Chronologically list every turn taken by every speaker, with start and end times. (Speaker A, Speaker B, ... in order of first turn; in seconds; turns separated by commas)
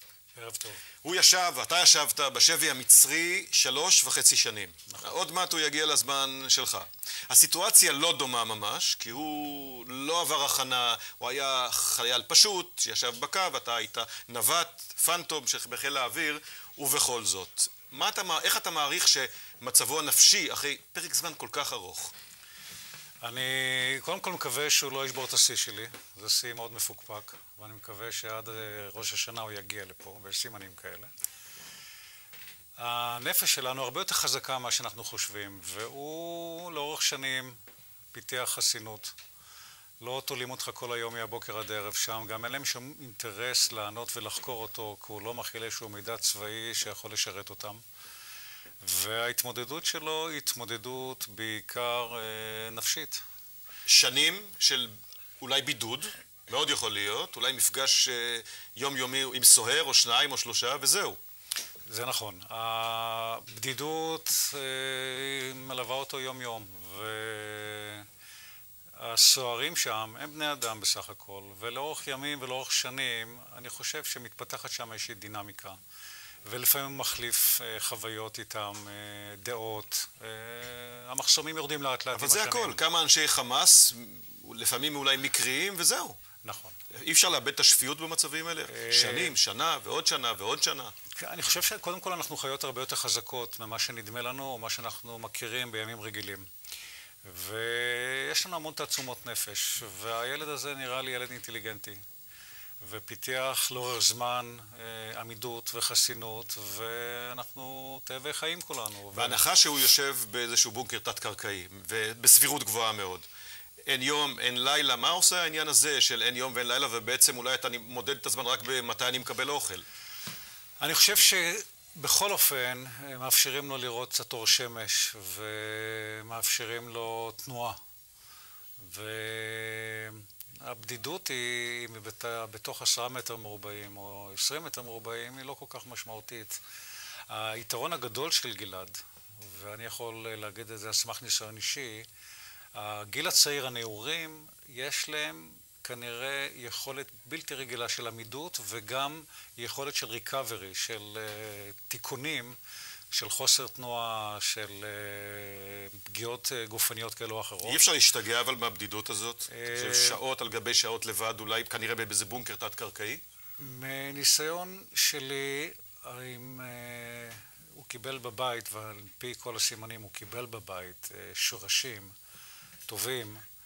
Speaker A: 0.3-0.8, Speaker B: 1.0-22.1, Speaker A: 4.9-5.2, Speaker A: 23.2-31.1, Speaker A: 32.8-37.6, Speaker A: 38.1-39.1, Speaker A: 40.0-47.8, Speaker A: 48.8-53.2, Speaker B: 53.9-61.2, Speaker A: 61.9-68.0, Speaker A: 69.0-75.8, Speaker A: 76.5-82.8, Speaker B: 82.1-86.2, Speaker A: 86.4-86.8, Speaker B: 86.9-90.9, Speaker A: 88.7-89.3, Speaker A: 91.2-96.5, Speaker A: 97.2-102.0, Speaker A: 102.8-109.4, Speaker B: 109.1-113.2, Speaker B: 113.8-119.8, Speaker A: 120.8-127.8, Speaker A: 128.8-136.6, Speaker A: 137.3-142.1, Speaker A: 142.7-152.6, Speaker A: 153.1-157.8, Speaker B: 157.6-163.2, Speaker A: 159.5-160.2, Speaker A: 163.6-172.1, Speaker A: 172.9-173.4